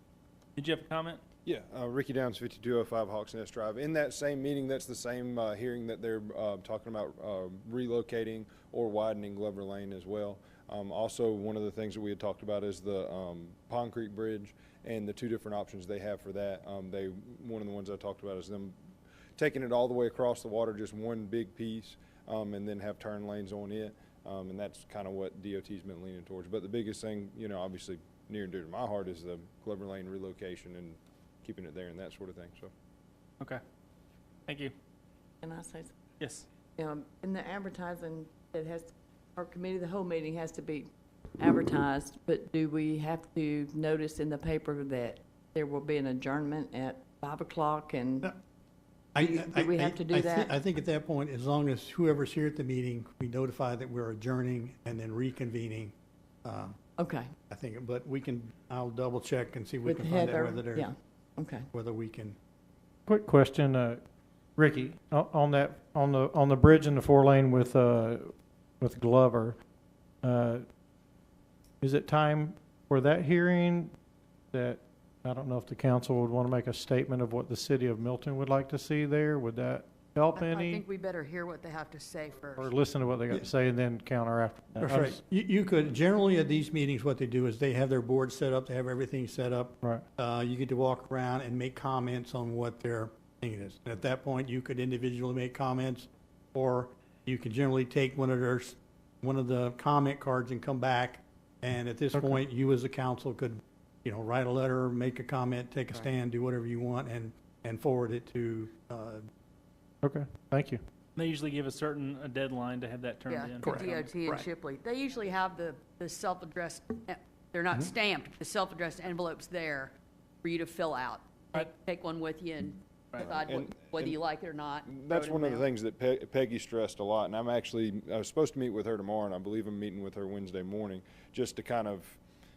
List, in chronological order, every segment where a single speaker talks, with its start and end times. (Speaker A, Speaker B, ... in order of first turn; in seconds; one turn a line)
Speaker A: 0.6-1.2
Speaker B: 1.4-18.8
Speaker B: 19.4-32.7
Speaker A: 34.5-34.7
Speaker C: 35.4-35.9
Speaker A: 36.2-36.5
Speaker C: 36.8-48.3
Speaker D: 49.1-56.8
Speaker C: 49.1-50.6
Speaker C: 57.0-57.3
Speaker D: 57.5-60.9
Speaker C: 59.8-61.7
Speaker D: 61.7-62.4
Speaker E: 63.1-64.0
Speaker E: 64.6-69.6
Speaker E: 70.2-70.6
Speaker E: 71.8-73.9
Speaker E: 74.5-80.8
Speaker F: 80.4-82.7
Speaker E: 82.6-85.2
Speaker D: 84.8-109.2
Speaker E: 110.0-110.8
Speaker A: 111.2-114.2
Speaker F: 113.3-125.7
Speaker B: 123.2-124.2
Speaker B: 124.8-132.2